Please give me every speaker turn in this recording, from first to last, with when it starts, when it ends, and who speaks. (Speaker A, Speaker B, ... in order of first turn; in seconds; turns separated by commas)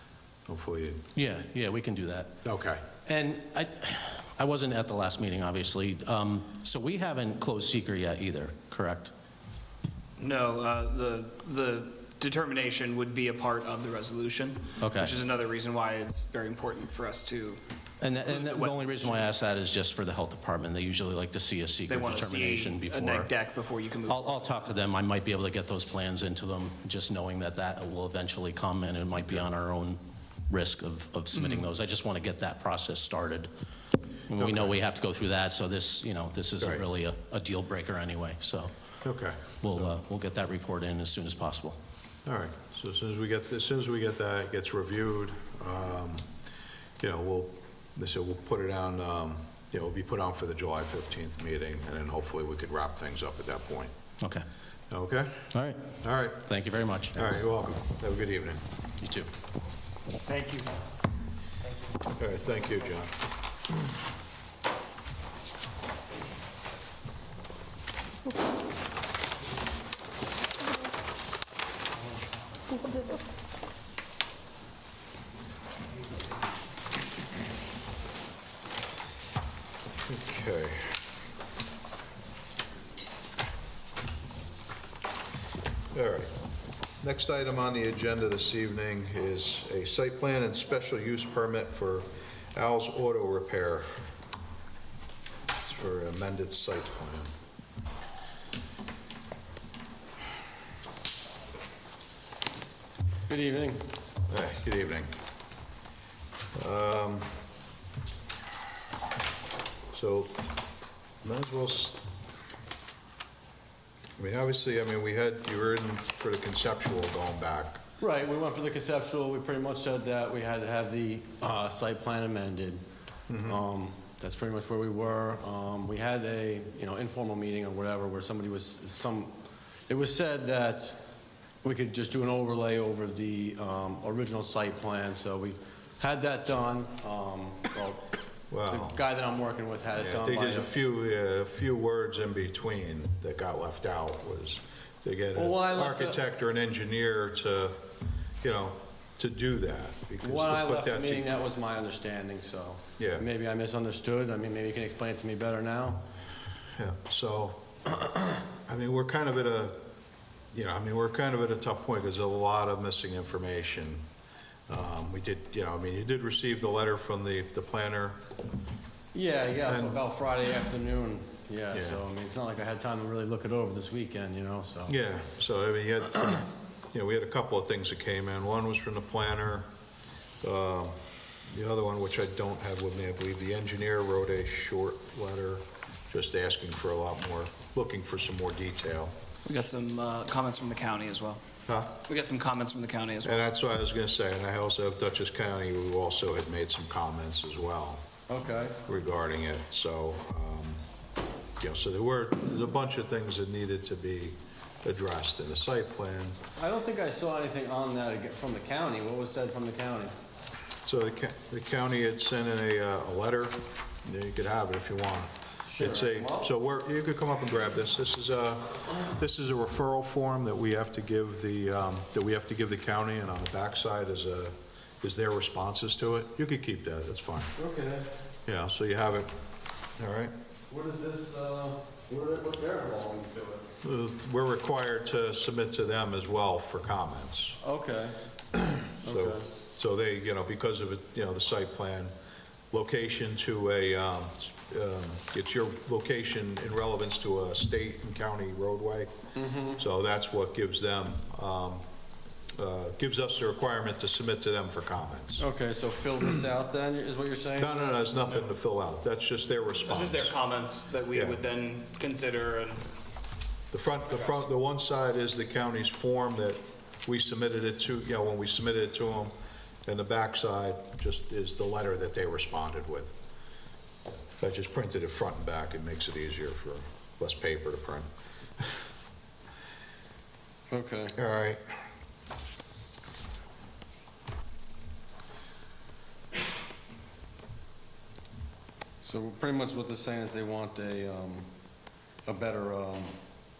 Speaker A: 0.5-1.1, Speaker B: 1.2-2.3, Speaker A: 2.4-2.8, Speaker B: 3.1-9.1, Speaker C: 10.2-17.6, Speaker B: 14.8-15.2, Speaker B: 18.0-23.3, Speaker C: 18.1-19.2, Speaker C: 21.9-24.7, Speaker B: 24.1-33.5, Speaker B: 34.3-38.7, Speaker A: 34.4-34.8, Speaker A: 39.0-39.9, Speaker B: 39.6-41.8, Speaker A: 42.3-46.3, Speaker A: 47.0-53.9, Speaker A: 54.9-56.5, Speaker B: 55.5-55.8, Speaker B: 56.4-57.3, Speaker A: 57.1-58.6, Speaker B: 59.0-59.3, Speaker C: 60.3-60.7, Speaker A: 62.1-63.1, Speaker A: 80.1-81.0, Speaker A: 85.9-86.3, Speaker A: 87.0-93.9, Speaker A: 95.6-97.3, Speaker D: 103.3-103.9, Speaker A: 104.3-105.1, Speaker A: 106.5-107.3, Speaker A: 109.9-110.4, Speaker A: 111.2-112.0, Speaker A: 114.2-117.8, Speaker D: 118.0-122.8, Speaker A: 123.3-123.6, Speaker D: 123.4-129.3, Speaker D: 129.9-131.0, Speaker D: 131.6-138.1, Speaker A: 138.5-139.0, Speaker D: 138.7-140.7, Speaker A: 140.0-147.8, Speaker D: 145.3-146.2, Speaker A: 148.4-151.3, Speaker D: 150.2-156.0, Speaker A: 153.0-153.3, Speaker A: 156.8-157.7, Speaker A: 158.7-159.8, Speaker A: 160.5-164.0, Speaker A: 164.7-168.2, Speaker D: 169.1-174.9, Speaker A: 169.7-170.0, Speaker A: 171.7-172.0, Speaker A: 174.9-179.7, Speaker A: 180.4-189.1, Speaker C: 189.5-191.4, Speaker A: 191.7-192.0, Speaker C: 192.0-193.3, Speaker A: 193.2-198.0, Speaker D: 198.3-198.8, Speaker A: 198.8-200.8, Speaker A: 201.6-206.4, Speaker D: 206.6-210.1, Speaker A: 210.8-227.5, Speaker D: 215.7-216.5, Speaker D: 227.6-228.1, Speaker A: 228.5-229.3, Speaker A: 230.0-230.3, Speaker D: 230.7-233.7, Speaker A: 233.8-237.6, Speaker D: 237.6-238.2, Speaker A: 238.9-242.1, Speaker D: 239.0-239.5, Speaker A: 242.7-249.1, Speaker D: 249.3-249.8, Speaker A: 249.8-251.8, Speaker A: 252.5-255.5, Speaker D: 255.4-258.0, Speaker A: 257.6-260.3, Speaker C: 259.9-262.8, Speaker A: 261.1-261.4, Speaker A: 263.7-269.3, Speaker C: 264.1-264.4, Speaker A: 269.9-273.2, Speaker A: 274.4-278.1, Speaker D: 280.7-281.2, Speaker A: 281.1-281.6, Speaker D: 289.0-291.5, Speaker D: 292.2-293.2